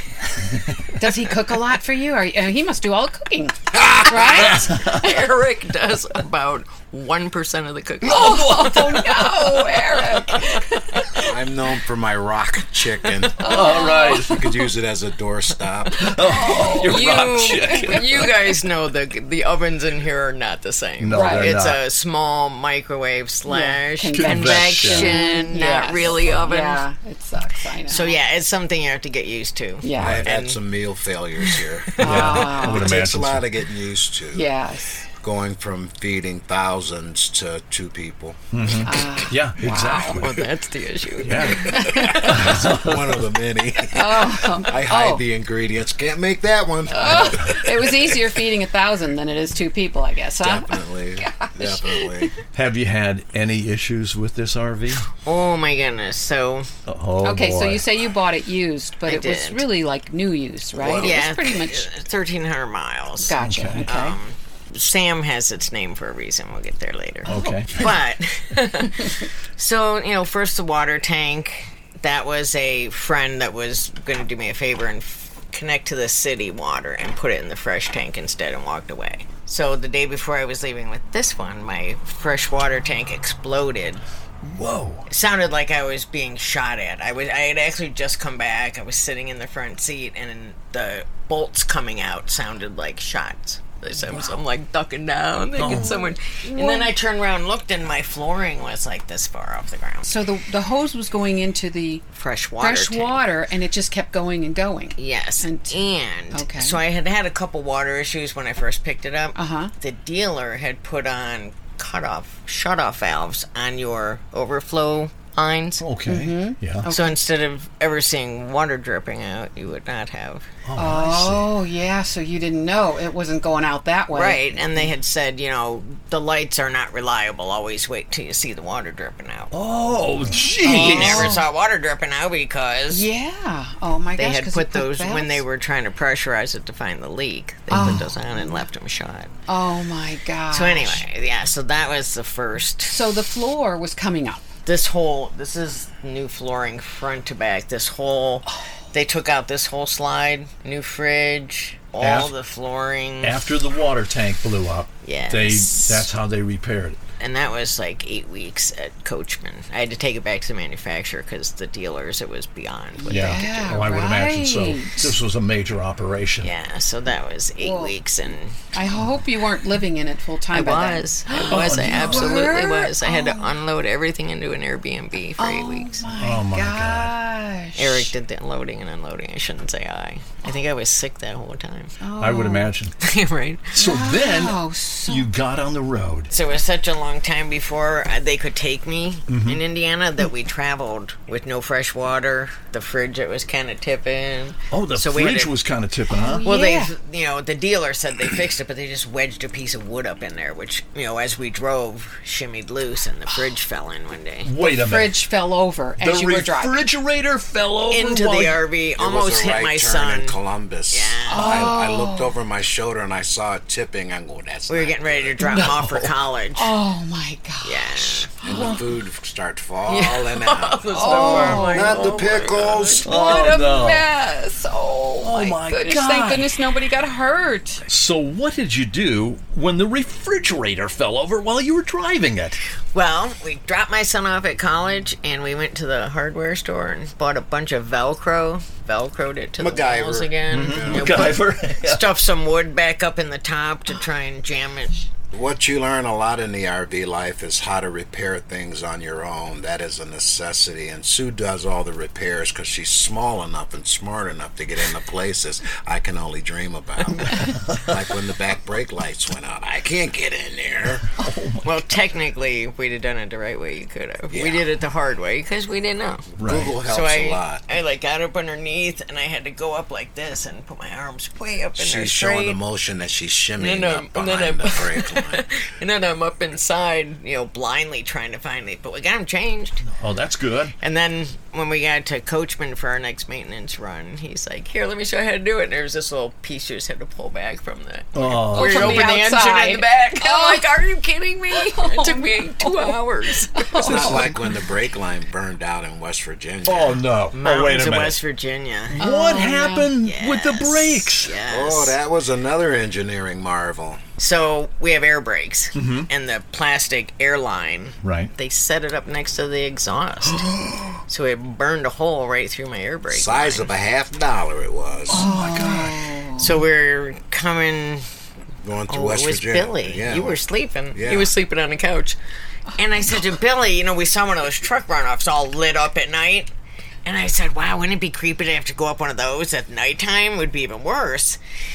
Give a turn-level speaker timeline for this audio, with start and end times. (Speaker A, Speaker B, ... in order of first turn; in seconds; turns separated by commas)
Speaker A: 0.3-0.9, Speaker B: 0.9-5.1, Speaker C: 3.7-4.4, Speaker D: 4.1-9.1, Speaker A: 4.5-5.0, Speaker A: 8.0-10.0, Speaker B: 8.1-11.2, Speaker C: 11.2-13.5, Speaker D: 13.2-13.8, Speaker A: 13.4-14.5, Speaker B: 13.4-14.4, Speaker C: 14.2-16.1, Speaker A: 15.9-18.3, Speaker B: 16.2-18.3, Speaker D: 16.3-26.8, Speaker A: 21.0-21.8, Speaker B: 21.1-21.5, Speaker B: 23.5-28.2, Speaker A: 24.1-25.3, Speaker D: 27.8-30.6, Speaker B: 29.8-30.2, Speaker A: 29.9-30.2, Speaker C: 30.0-34.5, Speaker A: 32.0-33.5, Speaker B: 32.0-32.9, Speaker B: 34.3-35.0, Speaker C: 35.0-39.0, Speaker A: 38.5-40.4, Speaker B: 38.8-40.2, Speaker D: 40.1-42.3, Speaker A: 41.2-43.2, Speaker B: 41.4-42.6, Speaker C: 41.5-48.3, Speaker B: 43.9-45.2, Speaker B: 46.9-52.3, Speaker C: 50.4-52.3, Speaker A: 52.5-55.1, Speaker D: 55.2-56.7, Speaker A: 56.9-57.9, Speaker B: 57.2-61.9, Speaker D: 59.1-59.6, Speaker C: 60.7-61.2, Speaker D: 60.8-84.0, Speaker B: 63.2-64.2, Speaker A: 63.4-63.9, Speaker A: 67.2-68.0, Speaker B: 67.3-67.6, Speaker A: 84.4-85.0, Speaker D: 85.1-100.1, Speaker B: 94.0-94.4, Speaker A: 95.6-96.0, Speaker B: 95.6-96.9, Speaker B: 100.0-102.0, Speaker D: 102.1-103.2, Speaker B: 102.6-106.8, Speaker D: 105.0-115.8, Speaker B: 109.3-109.7, Speaker A: 115.8-116.9, Speaker B: 116.1-117.2, Speaker D: 116.9-120.5, Speaker A: 120.7-121.5, Speaker B: 120.8-124.9, Speaker D: 124.1-129.5, Speaker A: 129.5-131.4, Speaker B: 130.4-131.4, Speaker D: 130.6-133.1, Speaker B: 132.9-135.4, Speaker D: 134.2-139.3, Speaker B: 137.7-138.6, Speaker A: 137.8-138.0, Speaker B: 139.5-141.0, Speaker D: 140.5-143.1, Speaker B: 142.9-144.5, Speaker D: 144.7-153.4, Speaker A: 152.0-152.3, Speaker A: 153.2-157.0, Speaker D: 155.0-156.1, Speaker D: 157.2-163.7, Speaker B: 163.0-165.1, Speaker A: 163.1-166.5, Speaker D: 166.4-168.6, Speaker B: 167.6-167.9, Speaker B: 168.7-173.5, Speaker D: 170.5-176.1, Speaker A: 171.4-172.5, Speaker B: 175.4-178.1, Speaker A: 176.2-177.1, Speaker D: 177.8-181.9, Speaker B: 182.0-182.7, Speaker A: 182.2-182.9, Speaker D: 183.0-183.8, Speaker A: 183.7-186.3, Speaker B: 183.8-185.3, Speaker D: 186.3-195.5, Speaker A: 189.3-189.6, Speaker A: 194.7-196.4, Speaker B: 196.1-196.9, Speaker D: 196.4-204.5, Speaker A: 204.4-205.3, Speaker B: 204.6-206.8, Speaker A: 206.0-208.6, Speaker D: 207.9-210.4, Speaker C: 209.0-215.4, Speaker D: 210.9-211.8, Speaker B: 211.3-212.3, Speaker D: 214.7-216.7, Speaker A: 215.4-216.1, Speaker B: 216.6-218.8, Speaker D: 217.6-218.3, Speaker C: 218.4-223.1, Speaker A: 218.5-218.8, Speaker D: 219.9-223.0, Speaker B: 220.9-222.1, Speaker A: 221.3-221.7, Speaker B: 223.0-227.8, Speaker A: 223.0-224.1, Speaker A: 225.2-226.6, Speaker A: 227.9-232.6, Speaker D: 232.9-245.0, Speaker C: 239.6-241.4, Speaker A: 240.5-242.0, Speaker C: 245.3-261.1, Speaker A: 257.3-257.9, Speaker A: 261.2-261.9, Speaker D: 261.6-266.3, Speaker C: 264.3-264.7, Speaker C: 266.4-267.7, Speaker A: 266.4-266.7, Speaker D: 266.8-272.6, Speaker C: 271.8-275.5, Speaker D: 273.6-279.8, Speaker A: 279.9-280.7, Speaker D: 280.8-294.2, Speaker A: 288.1-289.2, Speaker B: 288.5-290.7, Speaker B: 291.5-293.0, Speaker B: 293.6-294.3, Speaker C: 293.8-297.0, Speaker A: 293.8-294.4, Speaker A: 296.6-298.2, Speaker D: 297.3-299.0, Speaker A: 298.9-301.3, Speaker B: 299.0-299.9, Speaker D: 300.0-302.0, Speaker C: 301.5-304.0, Speaker D: 304.2-310.5, Speaker A: 305.7-306.1, Speaker A: 308.0-308.3, Speaker A: 310.3-311.0, Speaker D: 311.1-313.7, Speaker C: 313.1-315.3, Speaker A: 315.1-316.2, Speaker B: 315.1-316.6, Speaker D: 316.4-318.0, Speaker C: 318.6-320.4, Speaker D: 318.9-322.2, Speaker C: 320.9-321.3, Speaker D: 322.7-326.5, Speaker D: 327.0-331.4